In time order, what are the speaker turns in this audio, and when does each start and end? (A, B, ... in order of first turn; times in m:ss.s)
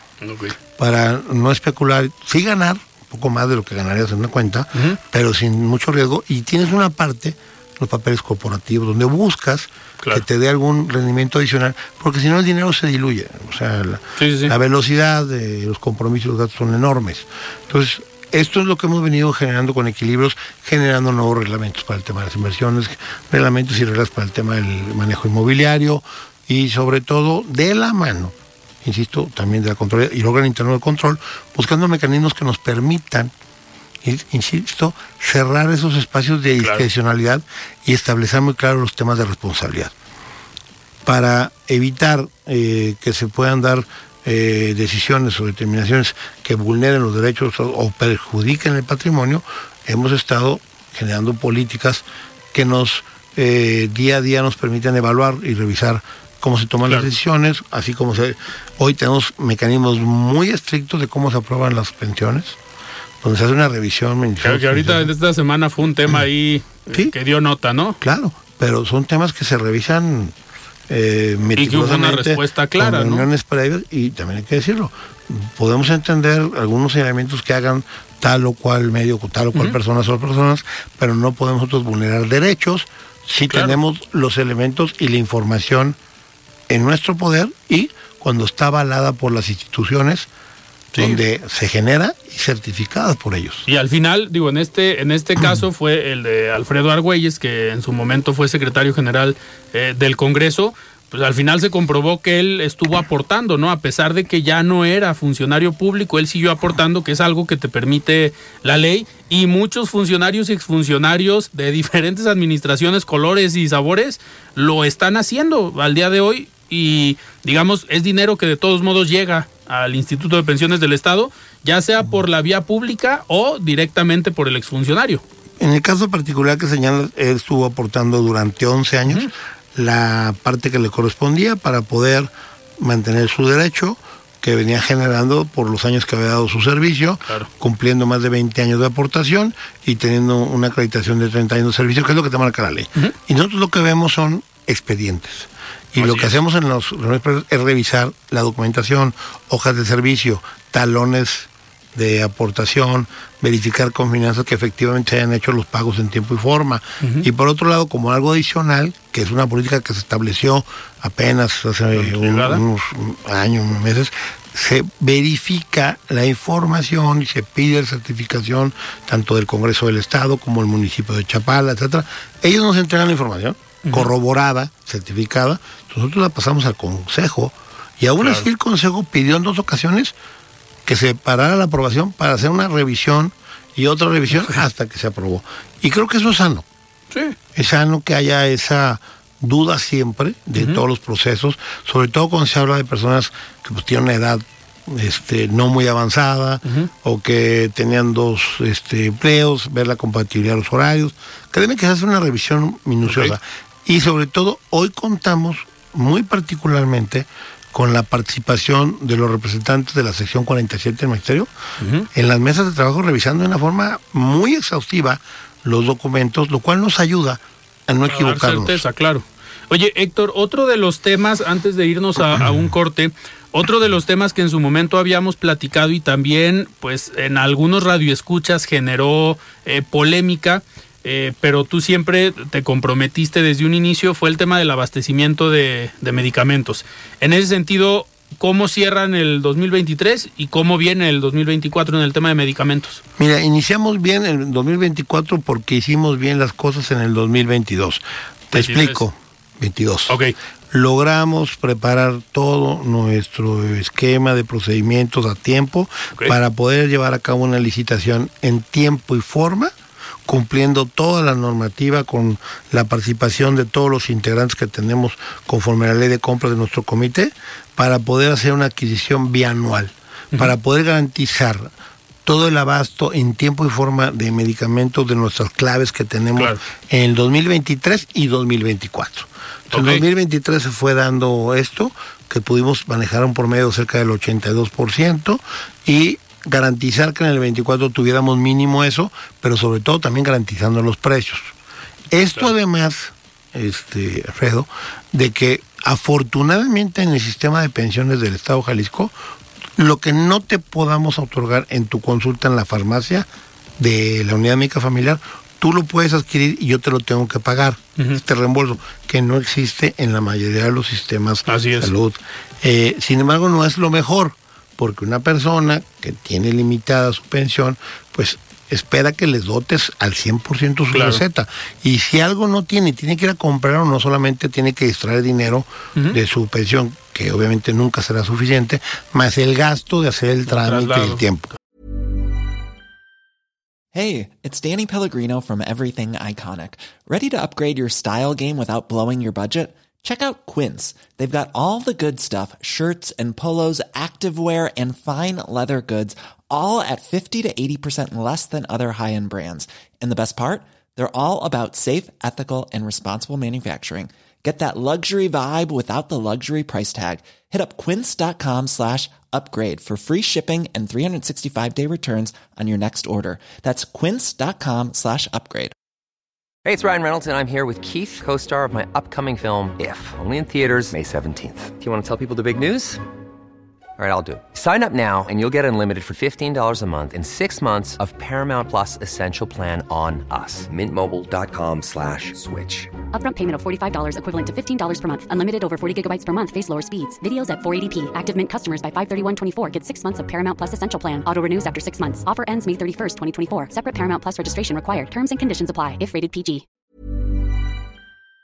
0:00.2-0:00.5 A
0:00.8-0:33.3 B
0:14.2-0:14.5 A
0:34.0-0:39.9 B
0:36.6-0:36.8 A
0:41.0-1:02.6 B
1:03.2-1:05.1 B
1:04.4-1:08.0 A
1:08.0-1:10.3 B
1:10.9-1:26.0 B
1:11.6-1:13.2 A
1:23.5-1:23.8 A
1:26.7-1:30.3 B
1:30.9-1:31.2 A
1:31.0-1:33.7 B
1:33.7-2:05.2 A
2:05.6-3:00.1 B
2:26.0-2:26.4 A
2:37.0-2:37.2 A
2:41.9-2:42.6 A
2:58.2-2:58.4 A
3:00.8-3:06.6 B
3:07.1-3:07.4 A
3:07.5-3:31.5 B
3:10.6-3:10.8 A
3:23.0-3:23.3 A
3:31.8-3:32.1 A
3:32.1-3:38.8 B
3:38.1-4:03.0 A
4:03.2-4:10.2 B
4:08.5-4:09.0 A
4:10.1-4:10.3 A
4:10.7-4:19.7 B
4:20.2-4:31.7 B
4:32.2-4:51.5 B
4:39.7-4:40.0 A
4:52.1-4:59.1 B
4:59.8-5:31.5 B
5:11.5-5:11.9 A
5:20.9-5:21.2 A
5:30.5-5:31.2 A
5:33.9-6:05.7 C
6:06.6-6:13.0 D
6:14.0-6:22.9 D
6:23.1-6:36.6 E